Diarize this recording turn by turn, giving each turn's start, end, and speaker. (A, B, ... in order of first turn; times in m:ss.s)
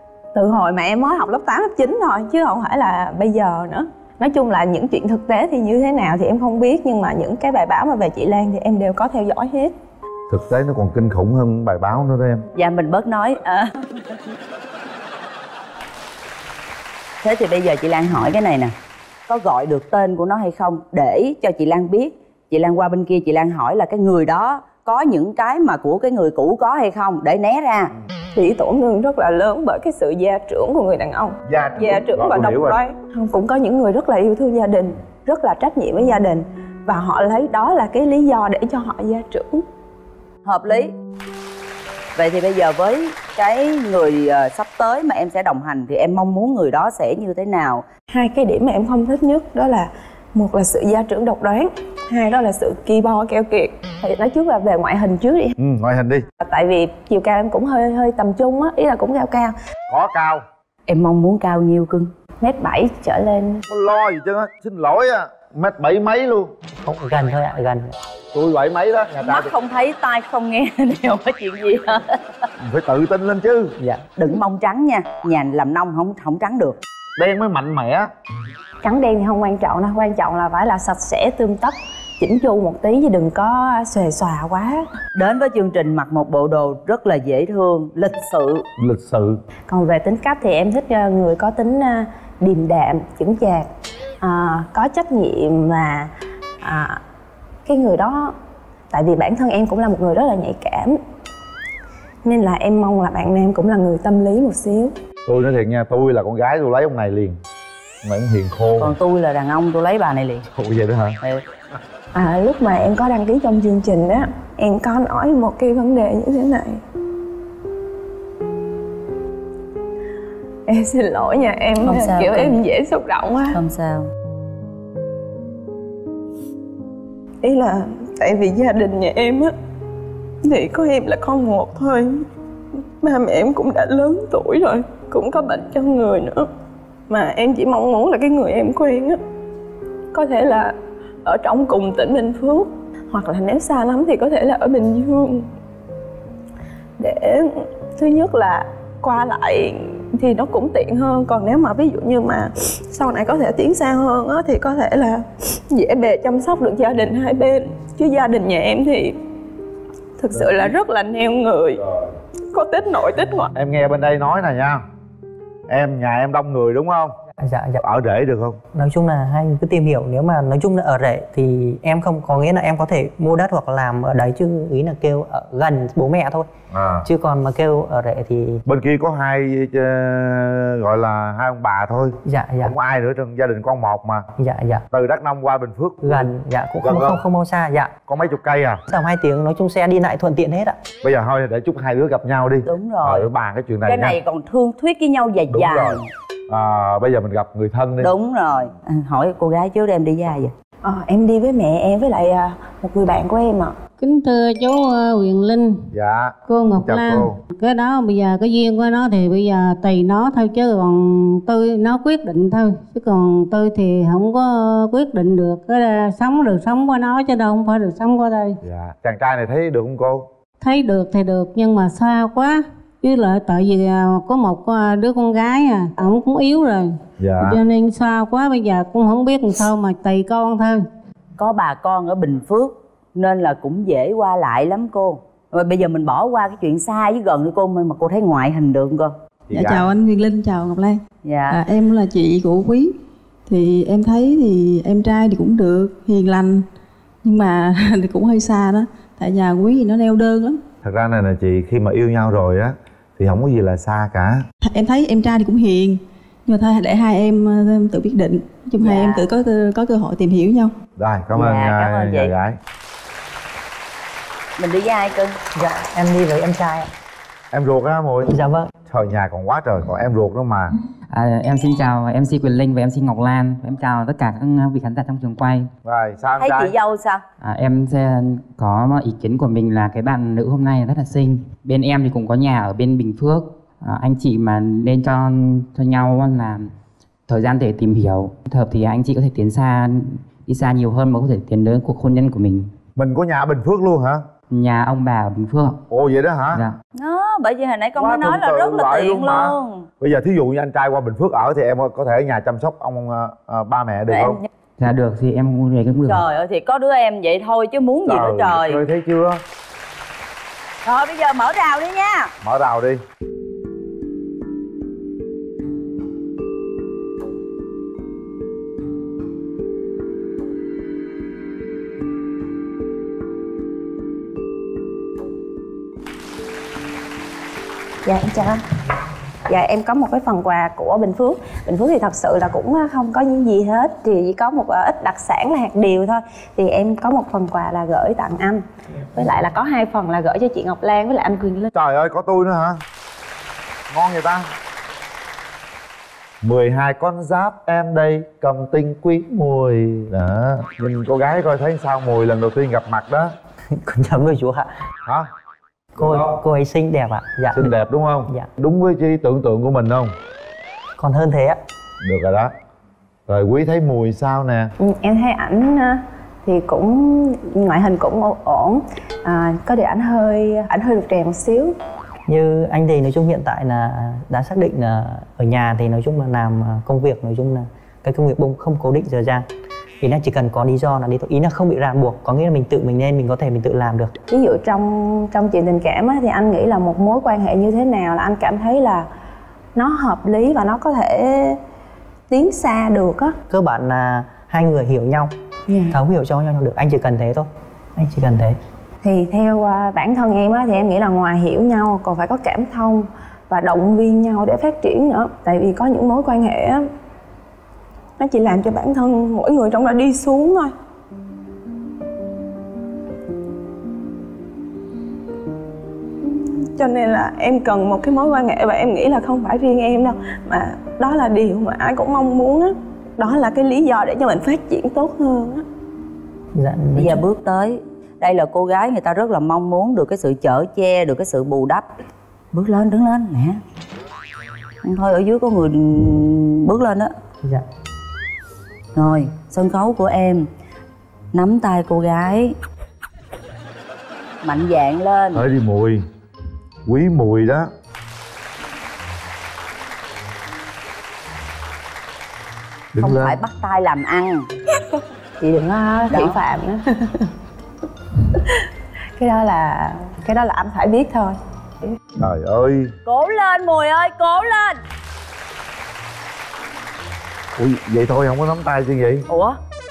0:00.3-0:09.7 A
0:10.3-0:12.4 B
0:12.6-0:13.8 C
0:17.2-0:18.7 C
0:19.3-0:27.9 C
0:28.3-0:39.6 A
0:31.4-0:32.8 B
0:40.4-0:40.9 C
0:42.1-0:47.8 C
0:48.1-0:55.6 A
0:55.6-0:56.2 B
0:56.4-0:59.6 A
0:59.9-1:00.4 B
1:00.9-1:02.1 C
1:02.4-1:03.6 A
1:03.7-1:06.5 B
1:06.8-1:07.9 D
1:08.3-1:09.5 B
1:09.2-1:12.2 C
1:12.6-1:13.8 B
1:13.8-1:14.0 D
1:14.2-1:16.8 C
1:17.2-1:18.1 B
1:18.8-1:24.8 A
1:25.1-1:28.6 C
1:28.8-1:29.4 B
1:29.7-1:33.7 A
1:34.2-1:36.1 A
1:36.6-1:37.0 A
1:37.6-1:38.3 A
1:38.9-1:41.0 A
1:42.2-1:44.9 A
1:45.2-1:47.4 B
1:48.0-1:49.0 B
1:48.8-1:50.4 C
1:50.5-1:51.2 B
1:52.1-1:56.8 A
2:00.7-2:03.6 A
2:01.8-2:02.6 C
2:03.5-2:04.1 C
2:07.4-2:09.5 A
2:10.4-2:12.2 A
2:13.0-2:16.5 A
2:17.1-2:19.2 A
2:20.1-2:25.5 A
2:27.0-2:39.1 A
2:40.2-2:41.8 A
2:40.4-2:40.6 B
2:42.5-2:43.5 A
2:43.6-2:44.8 B
2:45.7-2:47.1 B
2:47.4-2:47.8 D
2:47.8-2:48.6 B
2:48.7-2:56.5 D
2:56.7-2:57.0 B
2:57.0-2:58.6 D
2:58.7-3:04.3 B
3:02.2-3:02.7 D
3:04.4-3:04.8 D
3:04.9-3:06.2 B
3:06.0-3:07.9 D
3:06.8-3:07.2 B
3:08.1-3:08.8 B
3:08.9-3:10.8 D
3:11.0-3:14.2 B
3:12.6-3:13.3 C
3:13.9-3:16.1 C
3:15.5-3:18.1 B
3:18.0-3:20.5 C
3:20.8-3:23.8 A
3:24.0-3:25.8 E
3:25.9-3:27.4 B
3:26.5-3:38.6 E
3:38.6-3:40.3 B
3:40.6-3:50.8 E
3:47.2-3:47.6 B
3:51.4-3:59.1 C
3:59.5-3:59.9 B
3:59.5-4:02.9 F
4:01.2-4:01.6 C
4:03.5-4:06.6 F
4:07.2-4:10.6 F
4:10.8-4:14.4 B
4:14.6-4:20.7 F
4:18.8-4:19.2 C
4:21.0-4:22.6 B
4:21.3-4:22.3 C
4:24.6-4:25.4 C
4:25.6-4:26.9 D
4:27.5-4:28.3 B
4:28.2-4:28.7 D
4:28.9-4:30.7 B
4:31.1-4:35.7 G
4:35.8-4:36.7 B
4:36.4-4:37.2 C
4:37.4-4:46.7 G
4:47.3-4:52.7 G
4:53.0-4:54.3 B
4:54.5-4:55.8 G
4:55.9-4:56.6 B
4:57.0-4:59.9 C
4:58.0-5:04.4 B
5:04.1-5:04.5 C
5:04.8-5:06.2 G
5:06.0-5:08.8 C
5:08.0-5:09.4 B
5:10.8-5:12.3 C
5:12.4-5:13.0 B
5:28.0-5:28.6 A
5:29.5-5:41.7 A
5:41.7-5:42.8 B
5:43.9-5:44.5 B
5:46.4-5:53.3 B
5:53.8-5:54.7 D
5:56.0-5:57.7 D
5:56.0-5:56.4 B
5:57.6-6:00.1 B
6:01.0-6:01.6 D
6:02.0-6:02.5 B
6:03.3-6:04.7 B
6:04.8-6:11.7 A
6:12.3-6:19.4 D
6:20.0-6:24.1 D
6:24.3-6:29.0 A
6:29.8-6:31.6 A
6:32.3-6:33.4 A
6:33.5-6:35.3 D
6:35.7-6:36.0 A
6:35.9-6:38.6 D
6:39.0-6:46.9 A
6:48.2-6:50.7 A
6:56.4-7:05.6 A
7:06.6-7:07.2 D
7:07.0-7:11.9 C
7:12.5-7:13.6 C
7:14.8-7:17.1 C
7:18.9-7:20.5 C
7:21.3-7:22.6 C
7:24.4-7:25.4 C
7:25.3-7:26.0 B
7:26.9-7:27.7 B
7:32.9-7:33.4 B
7:33.0-7:34.4 C
7:35.4-7:37.3 A
7:36.1-7:36.4 C
7:39.2-7:41.3 A
7:42.2-7:42.9 B
7:43.0-7:44.8 C
7:47.6-7:49.2 B
7:49.3-7:49.6 C